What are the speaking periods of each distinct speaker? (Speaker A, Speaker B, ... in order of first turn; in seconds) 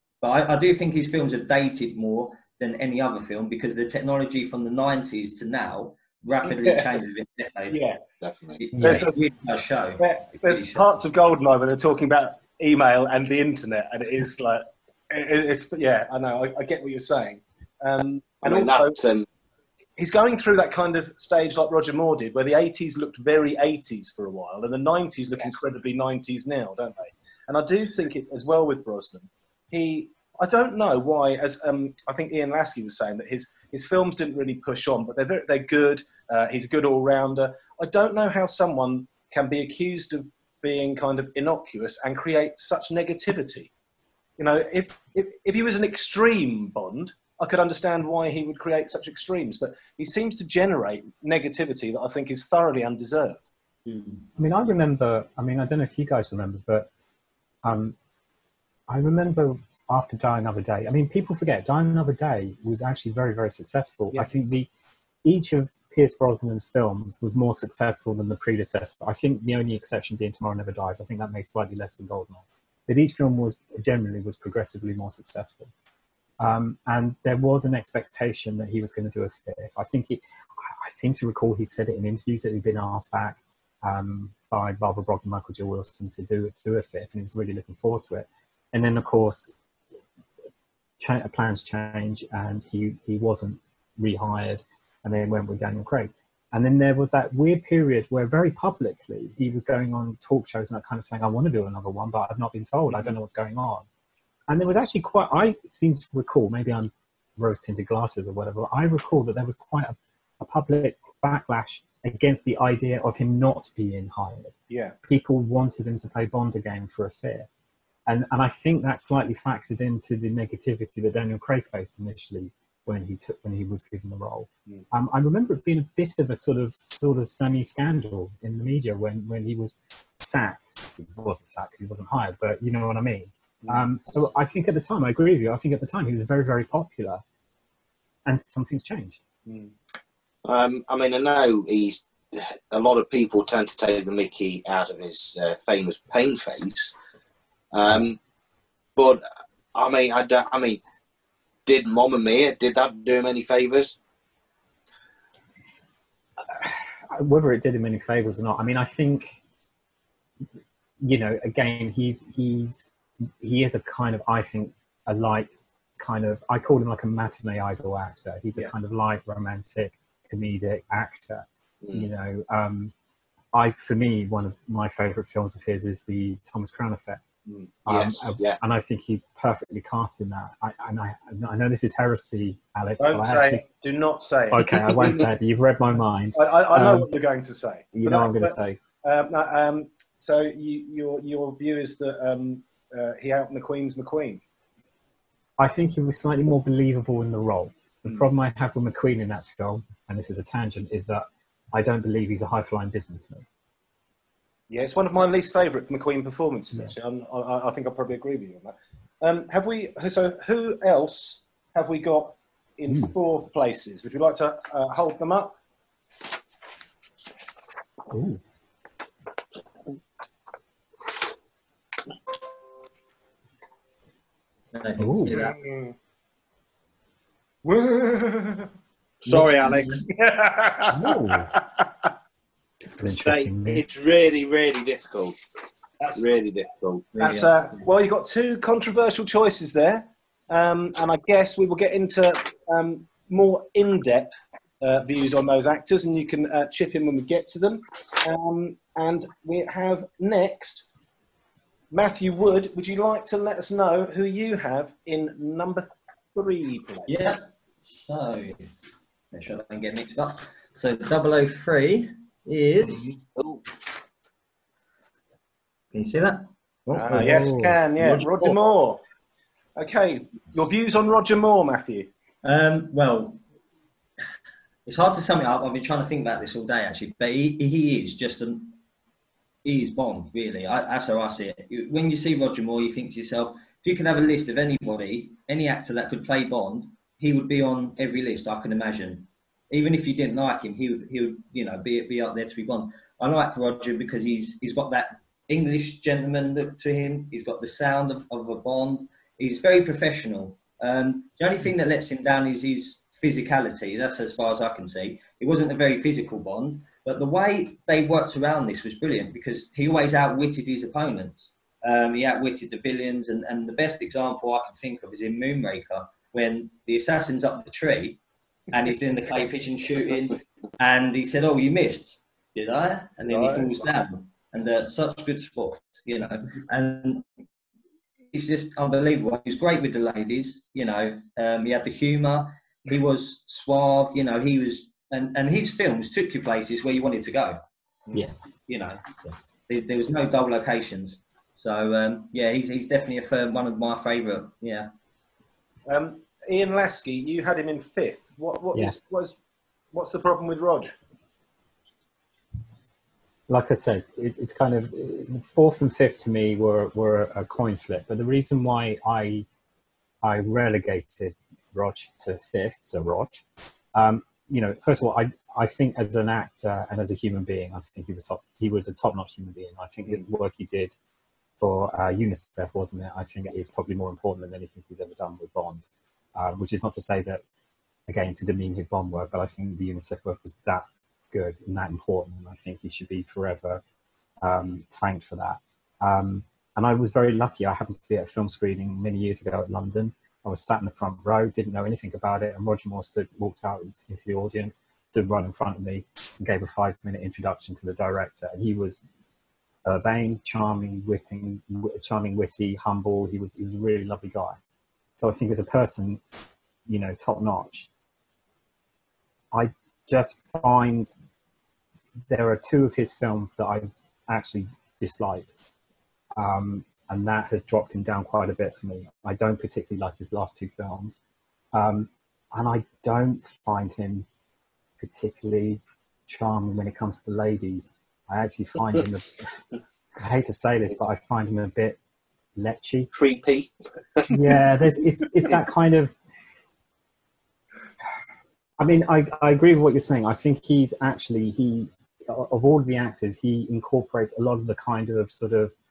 Speaker A: 0.2-7.8, 8.6-10.8, 53.9-54.2, 224.7-225.5, 229.3-230.0, 237.1-237.9, 257.1-258.7, 259.3-263.2, 265.9-267.4, 272.4-273.4, 274.9-278.8, 279.6-318.2, 318.7-327.3, 328.3-337.6, 338.7-344.9
Speaker B: 6.4-7.0, 7.7-8.0, 8.8-9.2, 10.0-19.0, 20.0-43.7, 44.4-53.4, 114.7-115.0, 139.5-139.7, 177.5-177.7, 183.0-185.2, 186.3-194.4, 204.7-215.6, 225.3-225.9, 227.6-228.7, 230.1-232.1, 237.2-250.9, 251.9-257.1, 266.9-269.0, 269.8-272.1, 323.3-323.7, 345.9-349.4, 349.9-350.9
Speaker C: 8.2-8.6, 18.4-19.3, 140.4-146.9, 147.7-148.2, 149.0-149.2, 149.7-150.8, 151.7-154.0, 171.8-172.1, 177.9-178.6, 229.2-230.0, 233.1-235.4, 236.1-237.1, 433.1-434.4
Speaker D: 8.8-9.1, 54.4-56.9, 57.6-58.0, 58.9-64.7, 65.2-75.7, 76.4-89.5, 91.0-103.9, 104.5-117.5, 118.1-137.2, 138.3-139.2, 156.4-159.4, 161.0-172.9, 173.5-177.2, 177.8-183.6, 184.5-187.1, 187.9-188.8, 195.6-203.5, 218.1-218.4, 225.0-225.5, 230.9-231.5, 232.8-233.8, 267.1-267.8, 338.1-338.5, 353.5-359.5, 360.2-363.4, 363.9-370.9, 371.6-377.4, 378.1-383.8, 384.4-399.0, 399.9-404.6, 405.2-406.2, 406.9-407.9, 409.5-411.1, 412.3-415.5, 416.4-421.2, 421.7-424.3, 425.0-429.5, 430.2-432.0, 432.6-433.1, 434.3-436.2, 438.8-445.8